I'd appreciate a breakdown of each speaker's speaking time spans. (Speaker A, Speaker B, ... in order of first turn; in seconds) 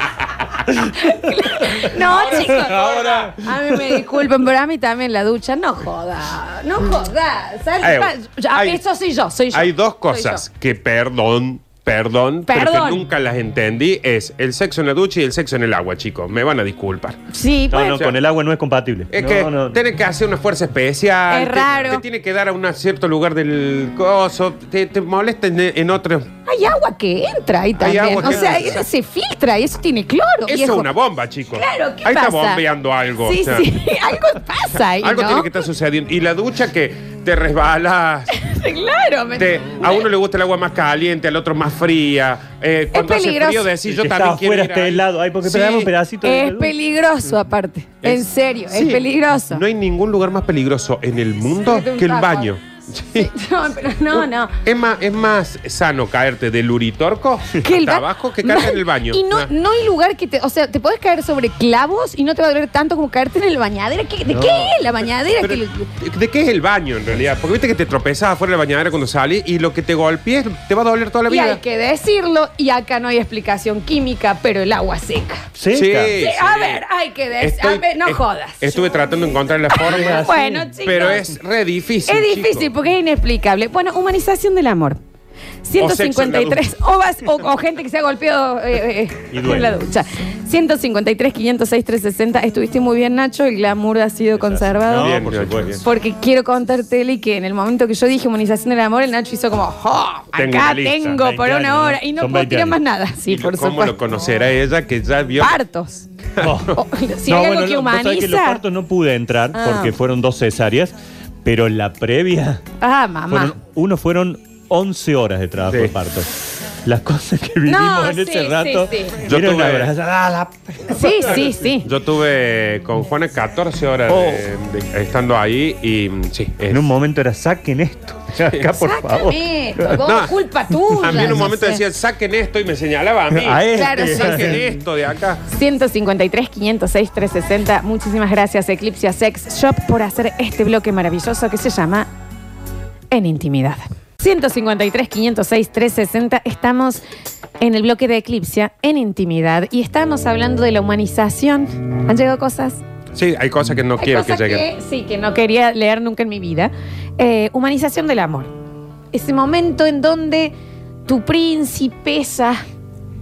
Speaker A: 0.9-10.4, 12.5-13.0, 17.3-18.0, 21.3-22.0, 26.5-30.9, 31.5-32.6, 33.2-35.5, 38.3-40.1, 42.9-43.7, 46.2-49.6, 51.6-52.5, 53.1-54.5, 57.6-65.9, 71.3-75.5, 76.2-78.9, 79.7-81.2, 82.1-85.0, 85.6-95.1, 95.8-103.9, 105.4-106.1, 106.7-108.6, 109.5-109.9, 112.8-113.5, 117.7-119.2, 120.9-121.9, 128.8-131.8, 133.7-134.5, 135.5-142.1, 143.1-147.0, 147.6-152.8, 154.0-158.5, 159.1-160.5, 161.1-162.6
Speaker B: 1.8-3.3, 17.7-19.8, 28.2-28.6, 43.8-46.7, 64.3-64.8, 75.5-76.1, 79.8-81.1, 89.3-89.8, 94.3-95.8, 100.9-102.8, 106.4-106.7, 107.3-112.6, 113.3-116.3, 116.8-121.5, 124.1-124.4, 126.7-130.0, 131.0-131.5, 133.3-134.6
Speaker C: 2.6-3.3, 7.8-8.8, 9.5-17.2, 19.1-26.3, 27.8-28.8, 30.4-33.6, 34.8-38.3, 39.4-45.9, 48.0-53.3, 54.6-59.5, 65.4-71.6, 75.7-76.8, 77.4-80.2, 80.8-82.7, 85.8-86.6, 94.9-95.8, 100.3-101.0, 103.3-105.6, 106.4-106.8, 115.7-115.9, 119.3-119.9, 121.8-126.9, 130.0-130.3, 131.0-135.4, 153.1-154.7